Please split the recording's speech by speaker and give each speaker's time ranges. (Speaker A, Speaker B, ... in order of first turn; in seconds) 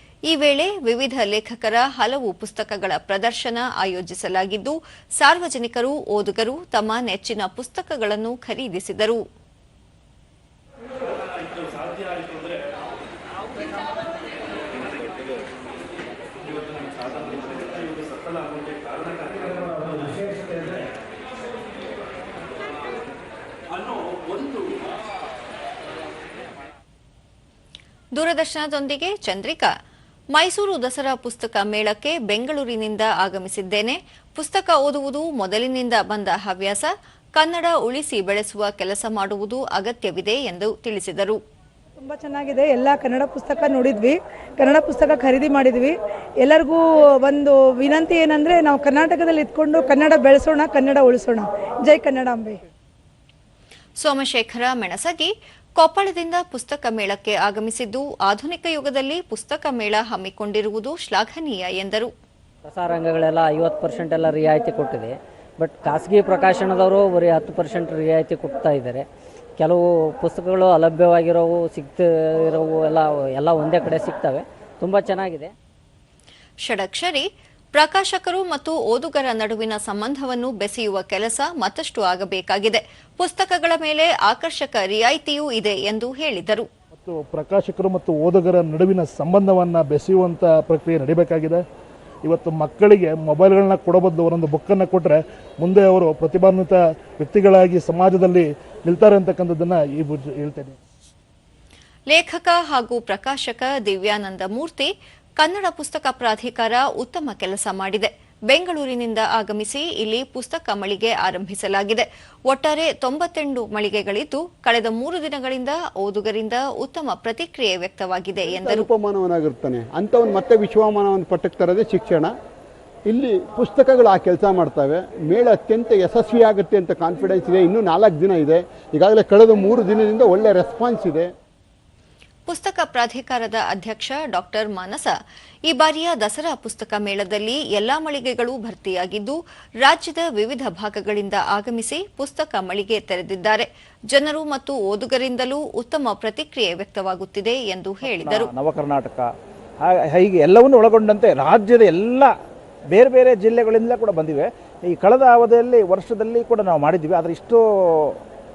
Speaker A: 0.3-9.2, 28.1-29.7, 30.3-41.4, 54.0-62.1, 76.6-86.7, 102.1-118.9, 132.5-135.1, 135.7-148.5
Speaker B: 42.0-52.6
Speaker C: 62.6-69.0, 69.6-75.5
Speaker D: 87.0-91.6, 92.2-100.8
Speaker E: 118.6-122.3, 123.1-131.3
Speaker F: 148.0-149.3, 149.8-152.3, 152.9-158.2